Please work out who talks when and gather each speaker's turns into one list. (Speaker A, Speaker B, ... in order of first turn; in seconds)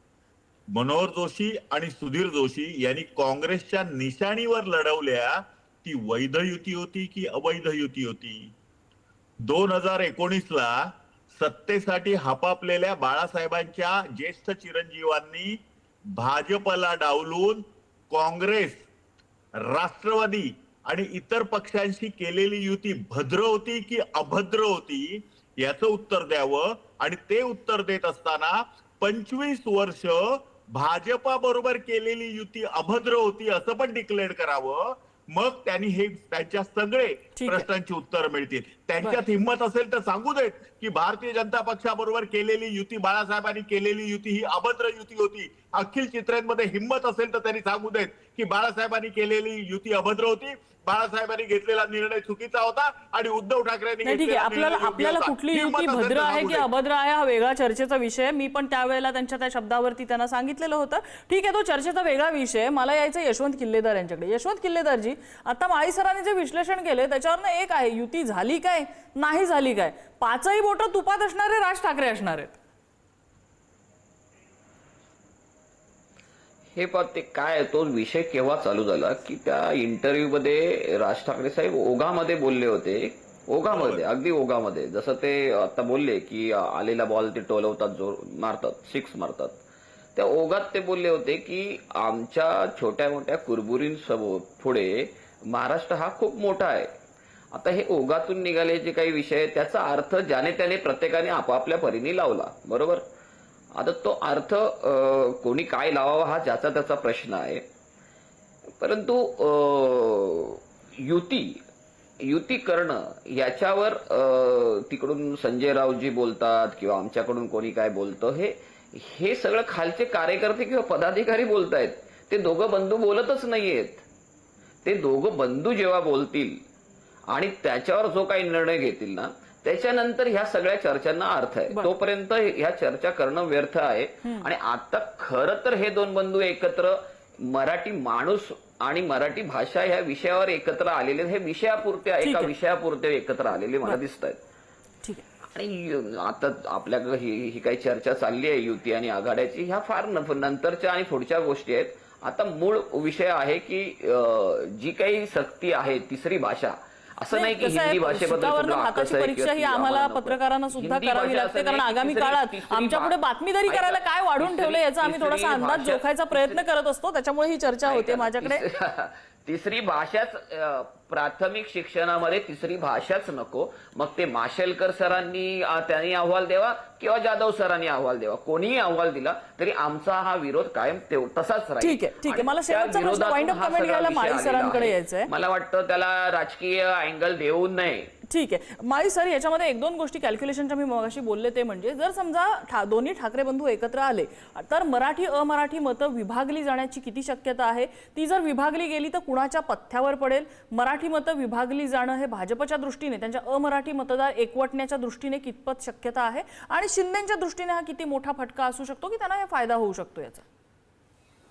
Speaker A: 0.7-8.5, 9.4-15.6, 16.1-18.8, 19.6-56.7, 83.7-84.0
Speaker B: 37.4-37.7, 54.0-72.6, 142.2-142.5, 157.3-168.6, 181.8-185.3, 188.3-210.4
Speaker C: 76.7-89.6, 90.2-96.9, 97.5-103.0, 103.7-107.7, 108.8-111.6, 112.2-124.0, 124.8-126.6, 127.3-144.4, 145.5-163.2, 163.7-166.6, 167.8-188.1